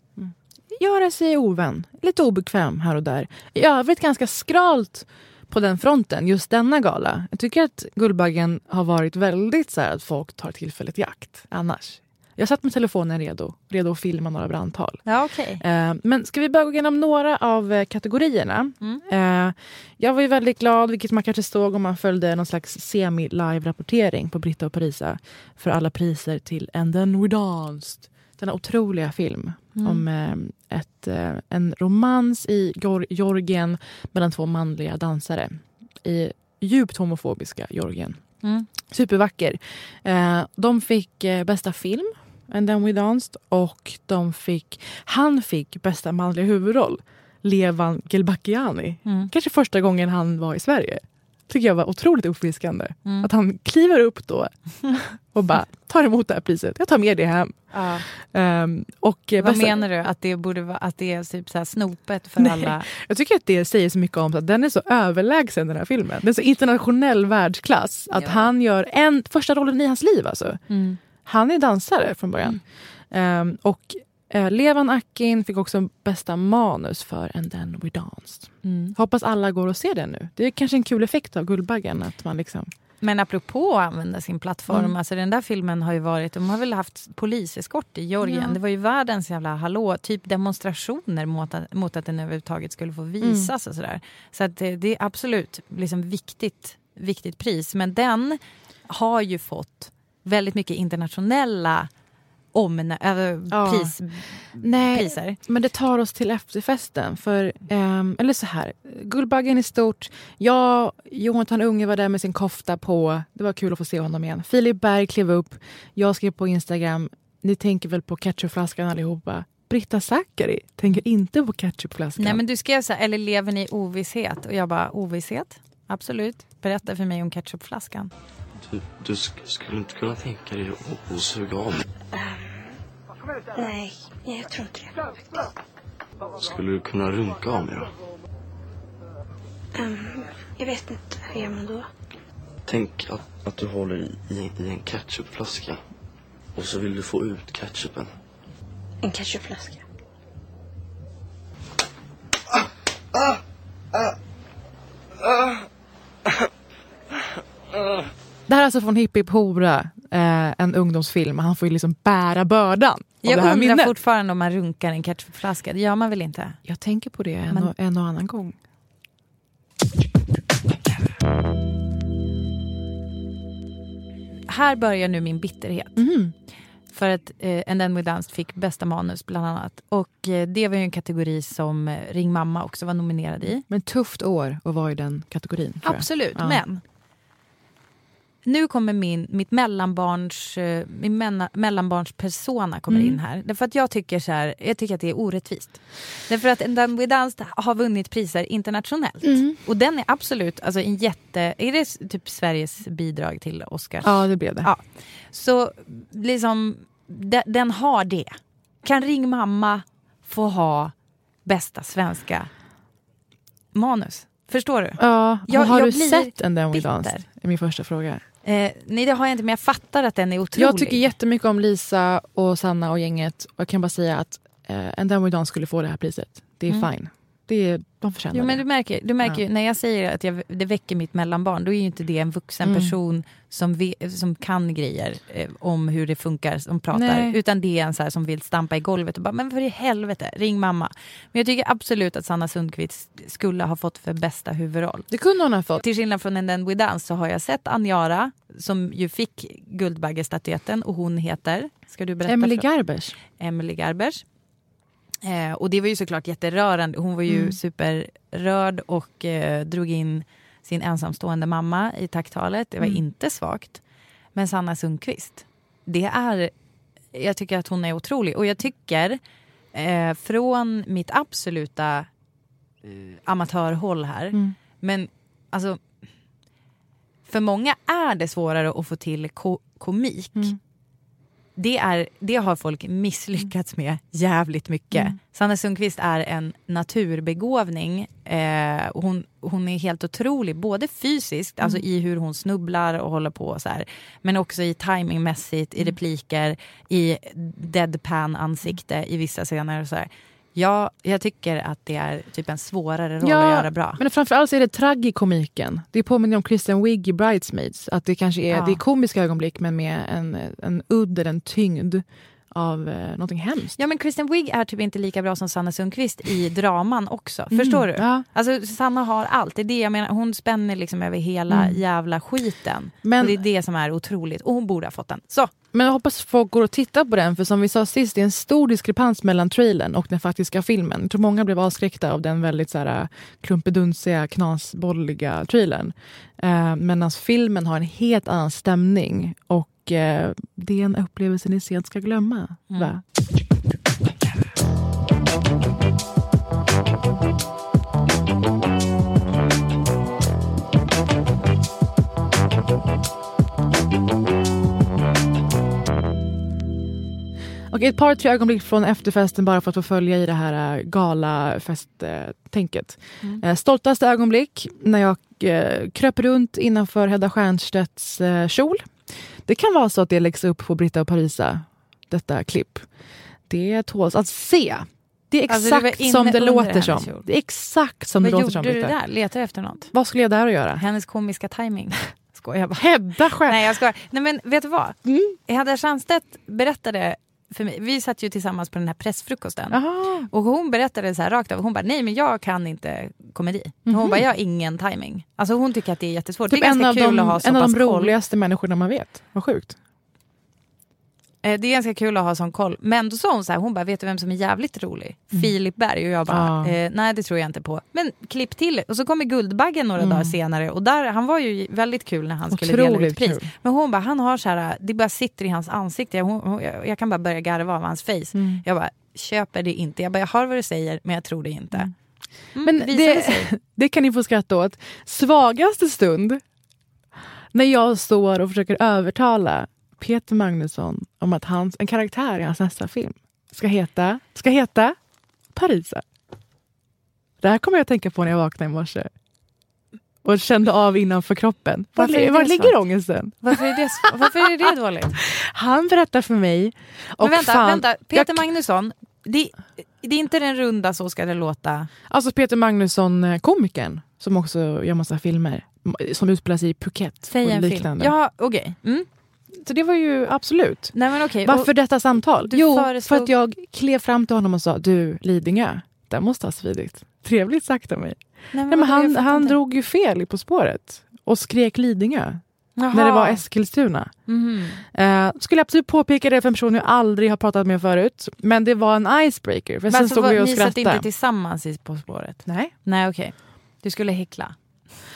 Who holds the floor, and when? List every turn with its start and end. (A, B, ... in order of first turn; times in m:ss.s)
0:00.2-0:15.0 A
0:15.1-0:15.6 B
0:15.6-0:38.2 A
0:29.8-0:30.0 B
0:38.8-0:59.8 A
0:49.1-0:49.3 B
0:57.7-0:58.0 B
0:59.4-1:02.9 B
1:02.4-1:10.6 A
1:08.1-1:08.5 B
1:10.7-1:11.0 B
1:11.2-1:22.7 A
1:18.6-1:19.0 B
1:23.0-1:41.9 B
1:28.2-1:28.6 A
1:33.2-1:33.5 A
1:42.5-1:45.4 B
1:43.5-1:44.0 A
1:44.6-2:02.4 A
2:02.2-2:08.1 B
2:08.7-2:11.8 C
2:12.1-2:12.5 D
2:13.6-2:15.0 D
2:16.4-2:17.9 C
2:19.8-2:21.9 D
2:22.7-2:25.8 C
2:26.6-2:28.1 C
2:29.0-2:29.8 D
2:38.5-2:44.0 A
2:43.2-2:46.6 B
2:46.6-2:48.6 A
2:54.5-2:56.0 B
2:56.0-2:56.3 A
2:56.9-3:03.6 B
3:03.7-3:06.6 A
3:05.8-3:06.8 B
3:08.4-3:30.9 B
3:12.9-3:13.2 A
3:19.2-3:19.6 A
3:24.0-3:24.7 A
3:31.4-3:32.5 B
3:33.7-3:37.2 B
3:35.0-3:38.2 A
3:38.4-3:41.1 B
3:40.6-3:48.6 A
3:48.3-4:05.1 B
3:52.6-3:53.0 A
3:56.9-3:57.4 A
4:05.1-4:05.8 A
4:05.8-4:12.6 B
4:12.2-4:13.2 A
4:13.4-4:14.2 B
4:15.2-4:23.8 B
4:17.3-4:17.6 A
4:24.4-4:26.5 B
4:27.1-4:29.2 B
4:29.7-4:32.1 B
4:32.8-4:35.8 B
4:37.3-4:40.6 B
4:41.6-5:04.0 B
5:03.2-5:13.8 A
5:08.5-5:08.8 B
5:13.8-5:25.5 B
5:17.5-5:18.2 A
5:21.5-5:21.8 A
5:23.0-5:23.4 A
5:25.7-5:43.0 A
5:57.7-6:12.9 A
6:13.5-6:19.0 A
6:15.5-6:17.3 B
6:18.2-6:19.9 B
6:19.9-6:20.8 A
6:20.8-6:29.8 B
6:22.8-6:23.6 A
6:25.0-6:25.4 A
6:29.7-6:30.3 A
6:30.3-6:38.1 B
6:33.9-6:34.2 A
6:36.5-6:39.8 A
6:41.4-7:01.9 B
6:46.3-6:46.8 A
6:50.0-6:50.4 A
6:52.5-6:53.5 A
6:58.3-6:58.6 A
7:02.6-7:03.5 B
7:02.6-7:06.4 A
7:07.5-7:15.0 A
7:15.5-7:16.0 A
7:17.4-7:19.1 A
7:20.2-7:24.3 A
7:22.0-7:22.8 B
7:23.4-7:25.2 B
7:25.2-7:28.4 A
7:27.2-7:31.9 B
7:32.1-7:38.1 A
7:37.3-7:39.1 B
7:39.5-7:54.1 A
7:40.9-7:41.7 B
7:42.4-7:43.3 B
7:48.5-7:49.6 B
7:52.8-7:53.4 B
7:54.3-7:54.8 B
7:54.9-8:01.1 A
7:59.9-8:04.6 B
8:02.5-8:02.7 A